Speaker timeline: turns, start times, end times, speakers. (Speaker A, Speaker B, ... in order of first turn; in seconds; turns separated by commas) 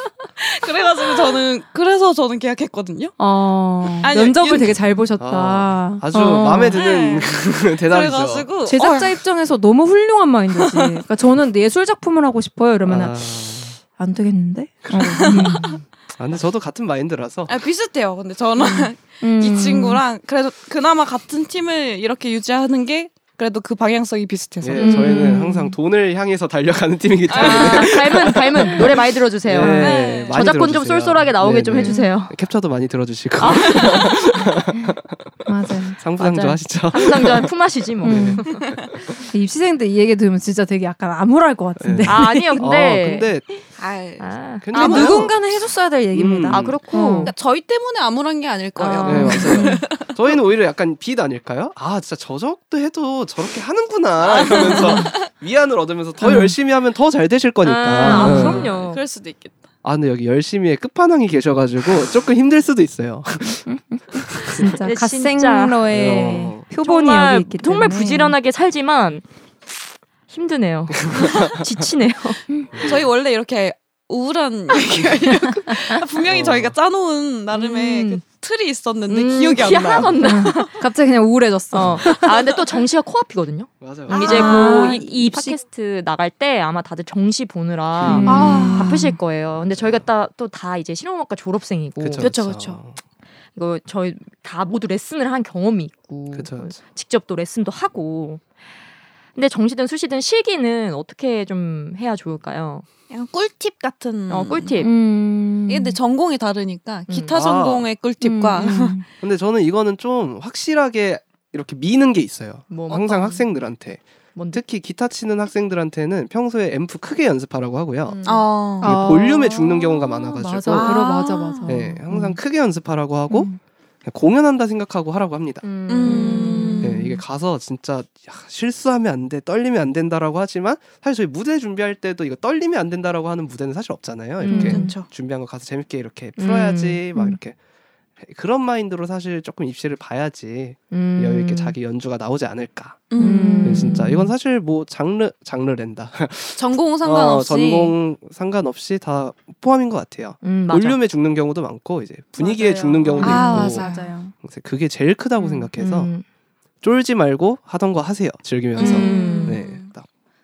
Speaker A: 0.4-3.2, Speaker B: 3.2-6.8, Speaker A: 4.0-4.8, Speaker C: 5.2-8.5, Speaker A: 6.7-9.2, Speaker B: 8.7-13.3, Speaker A: 10.6-11.0, Speaker C: 12.8-13.8, Speaker B: 13.9-15.8, Speaker C: 14.9-15.6, Speaker A: 15.1-15.6, Speaker C: 16.2-17.6, Speaker A: 17.5-25.0, Speaker B: 18.6-20.0, Speaker C: 24.6-28.9, Speaker B: 24.8-25.7, Speaker D: 24.8-25.4, Speaker A: 27.3-28.0, Speaker D: 27.3-32.4, Speaker C: 29.4-39.2, Speaker A: 29.8-30.4, Speaker D: 33.4-34.2, Speaker B: 35.5-36.4, Speaker D: 36.2-38.7, Speaker B: 38.0-38.6, Speaker B: 39.3-42.8, Speaker C: 41.8-43.4, Speaker D: 42.0-43.4, Speaker A: 43.8-44.3, Speaker D: 44.2-45.3, Speaker C: 44.6-46.8, Speaker B: 44.7-47.3, Speaker D: 46.5-47.3, Speaker A: 47.2-50.1, Speaker D: 48.8-49.5, Speaker B: 49.0-49.8, Speaker C: 49.0-58.7, Speaker A: 54.3-55.3, Speaker B: 54.7-55.1, Speaker B: 56.2-56.5, Speaker D: 57.6-59.0, Speaker B: 58.0-58.6, Speaker A: 58.0-59.6, Speaker C: 59.8-63.7, Speaker B: 63.7-68.3, Speaker C: 64.4-64.7, Speaker D: 64.8-69.2, Speaker C: 65.9-66.7, Speaker D: 70.3-72.4, Speaker C: 71.1-71.7, Speaker C: 72.7-73.0, Speaker A: 72.8-80.7, Speaker C: 76.2-76.8, Speaker D: 77.5-78.2, Speaker D: 79.1-80.7, Speaker B: 80.2-82.4, Speaker D: 81.7-92.3, Speaker C: 83.8-84.5, Speaker A: 84.1-85.0, Speaker B: 84.1-85.6, Speaker C: 88.0-88.4, Speaker B: 88.0-89.2, Speaker A: 88.3-89.1, Speaker C: 89.7-90.0, Speaker C: 92.0-93.0, Speaker A: 92.2-92.8, Speaker D: 93.5-98.4, Speaker C: 96.3-96.8, Speaker D: 99.3-102.9, Speaker A: 103.1-104.8, Speaker D: 104.3-104.9, Speaker B: 104.8-106.0, Speaker A: 105.7-109.0, Speaker D: 107.1-107.3, Speaker C: 107.3-107.9, Speaker B: 108.2-109.0, Speaker C: 109.2-121.0, Speaker D: 112.7-113.5, Speaker D: 114.3-114.6, Speaker D: 118.0-118.5, Speaker A: 118.2-119.0, Speaker B: 118.8-122.4, Speaker A: 120.7-121.8, Speaker C: 121.7-126.2, Speaker B: 123.3-123.6, Speaker D: 125.6-127.0, Speaker A: 125.9-127.0, Speaker C: 126.8-137.6, Speaker D: 134.4-134.9, Speaker B: 134.4-134.9, Speaker A: 134.5-135.1, Speaker D: 136.4-137.0, Speaker C: 138.2-143.1, Speaker D: 140.9-141.8, Speaker A: 143.1-143.7, Speaker B: 143.2-144.3, Speaker D: 143.2-144.0, Speaker C: 143.6-153.8, Speaker A: 146.6-147.9, Speaker D: 150.4-151.0, Speaker D: 152.4-153.8, Speaker A: 153.2-154.1, Speaker B: 153.3-154.3, Speaker C: 154.4-156.1, Speaker D: 155.4-156.2, Speaker C: 156.8-160.1, Speaker A: 158.8-159.9, Speaker D: 158.8-159.6